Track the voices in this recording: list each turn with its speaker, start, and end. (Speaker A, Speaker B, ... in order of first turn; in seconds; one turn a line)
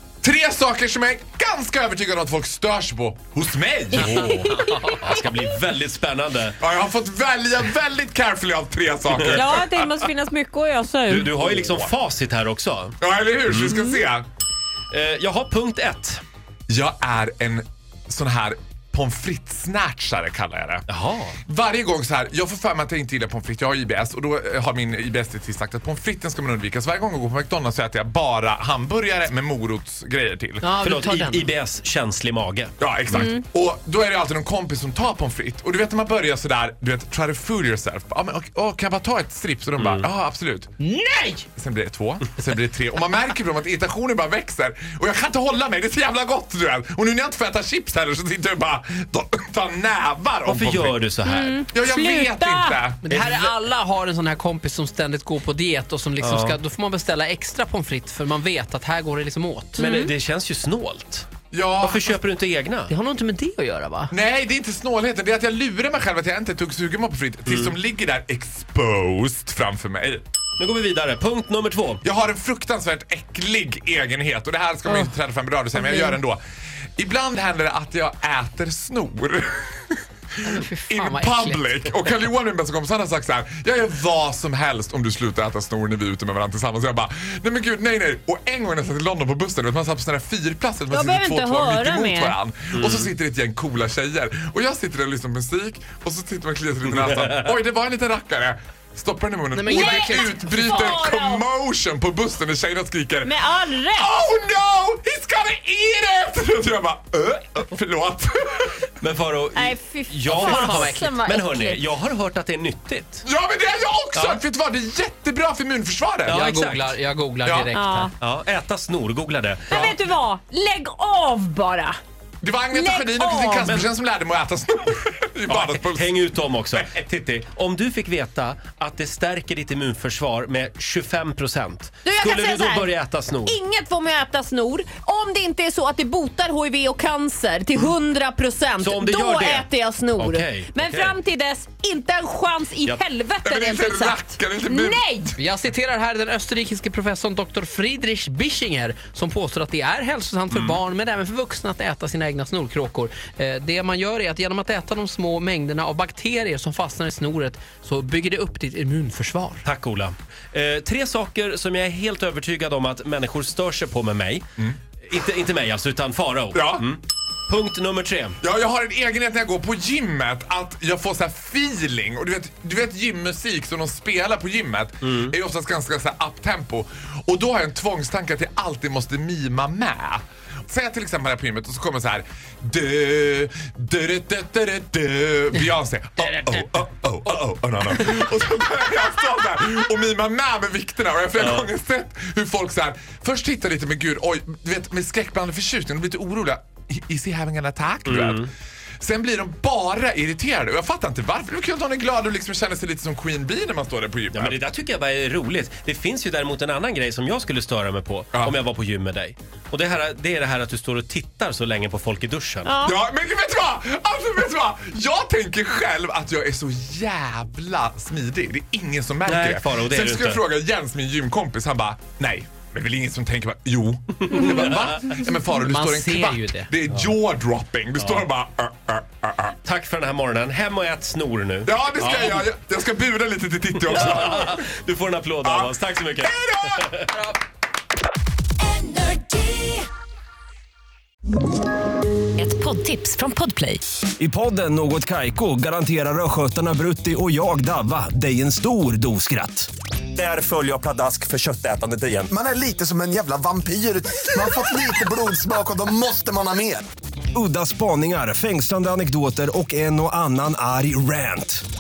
Speaker A: 0.2-4.3
Speaker B: 4.0-6.6
Speaker C: 4.1-5.0
Speaker A: 6.6-10.1
Speaker B: 9.1-9.4
Speaker C: 9.3-11.4
Speaker B: 11.1-12.9
Speaker A: 11.6-11.9
Speaker A: 13.0-14.3
Speaker C: 13.7-14.0
Speaker B: 14.9-16.2
Speaker A: 16.7-20.9
Speaker B: 20.9-21.4
Speaker A: 21.5-30.7
Speaker D: 30.6-31.5
Speaker B: 30.8-33.2
Speaker A: 32.8-40.7
Speaker C: 33.1-33.4
Speaker B: 39.8-40.0
Speaker D: 40.8-41.5
Speaker A: 41.6-51.0
Speaker B: 50.5-51.6
Speaker C: 51.3-52.7
Speaker A: 51.7-53.1
Speaker D: 52.6-59.9
Speaker B: 53.1-53.5
Speaker B: 56.2-56.6
Speaker C: 59.8-60.1
Speaker B: 59.8-61.3
Speaker A: 61.5-62.1
Speaker B: 61.8-62.9
Speaker D: 62.9-64.1
Speaker A: 64.1-70.2
Speaker B: 67.5-67.7
Speaker B: 70.6-72.0
Speaker A: 72.0-76.4
Speaker D: 75.8-76.2
Speaker A: 77.0-103.3
Speaker D: 80.4-81.7
Speaker C: 90.9-92.4
Speaker B: 92.7-93.1
Speaker B: 97.0-97.3
Speaker D: 99.5-101.0
Speaker C: 99.6-100.2
Speaker C: 100.7-101.5
Speaker C: 103.2-104.2
Speaker A: 103.9-108.9
Speaker B: 109.0-113.2
Speaker C: 109.5-111.8
Speaker D: 110.3-111.1
Speaker A: 113.2-116.5
Speaker B: 114.1-114.4
Speaker D: 116.3-118.1
Speaker B: 116.3-117.0
Speaker A: 117.4-117.7
Speaker C: 117.7-118.1
Speaker B: 118.2-119.9
Speaker C: 119.7-122.0
Speaker A: 119.7-120.0
Speaker A: 122.4-126.2
Speaker C: 122.7-123.8
Speaker B: 125.5-133.6
Speaker A: 126.7-127.0
Speaker C: 132.0-132.9
Speaker C: 133.4-145.3
Speaker B: 138.8-141.1
Speaker A: 143.4-145.1
Speaker D: 145.4-159.7
Speaker B: 150.5-150.8
Speaker B: 159.6-164.4
Speaker B: 165.0-168.4
Speaker A: 166.5-166.9
Speaker A: 168.4-198.5
Speaker B: 175.0-175.3
Speaker B: 191.4-191.7
Speaker B: 198.1-198.5
Speaker A: 199.0-204.6
Speaker B: 204.3-212.7
Speaker C: 212.7-213.0
Speaker A: 212.8-229.6
Speaker B: 219.3-220.4
Speaker D: 225.5-226.7
Speaker B: 228.0-228.2
Speaker B: 229.6-232.4
Speaker A: 231.7-234.6
Speaker B: 233.9-237.1
Speaker A: 235.4-236.9
Speaker C: 238.6-239.8
Speaker C: 242.4-243.8
Speaker E: 244.2-252.3
Speaker F: 252.3-256.8
Speaker E: 257.3-261.6